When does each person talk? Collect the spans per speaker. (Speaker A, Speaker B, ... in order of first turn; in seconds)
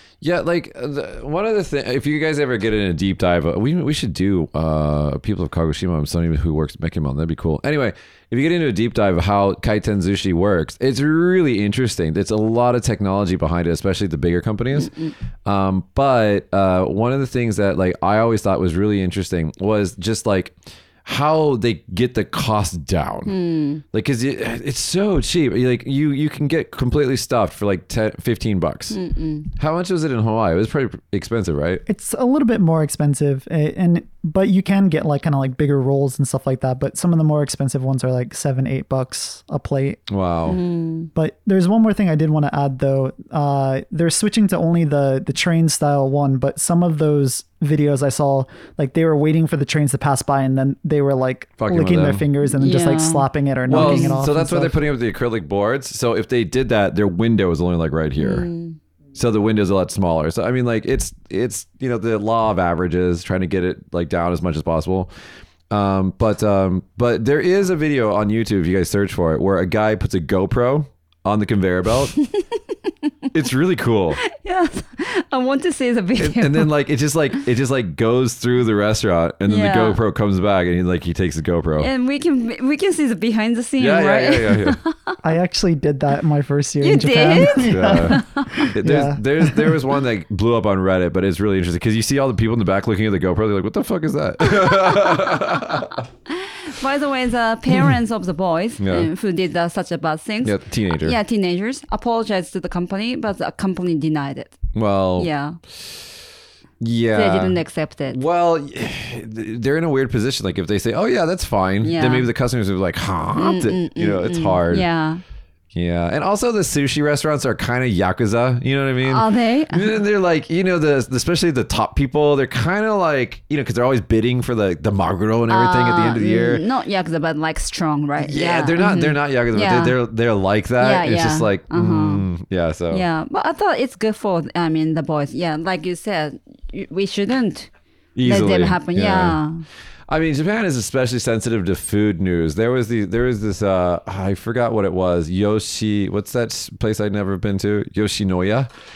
Speaker A: 0.2-14.9, 15.4-23.3, 23.9-29.0, 29.5-31.8, 40.1-40.6, 51.6-52.2, 53.7-58.5, 59.1-65.1, 65.7-72.2, 73.3-74.2, 76.2-81.9, 83.8-84.8, 87.6-96.0, 98.8-99.1, 100.4-101.1, 104.7-105.3, 106.8-107.6, 108.1-114.8, 115.7-126.6, 128.2-133.0, 138.2-139.4, 140.1-148.7
Speaker B: 14.7-15.1, 23.3-23.8, 28.9-29.5, 40.5-41.1, 52.4-54.2, 58.2-58.8, 72.4-73.1, 74.2-76.7, 79.5-80.0, 81.8-85.2, 86.8-88.6, 94.6-95.3, 96.2-104.6, 105.2-105.6, 107.1-108.2, 111.8-112.3, 113.3-115.2, 119.0-120.0, 125.5-130.0, 130.8-132.2, 132.9-137.7, 138.2-139.6
Speaker C: 31.9-40.0, 41.1-54.8, 85.2-89.8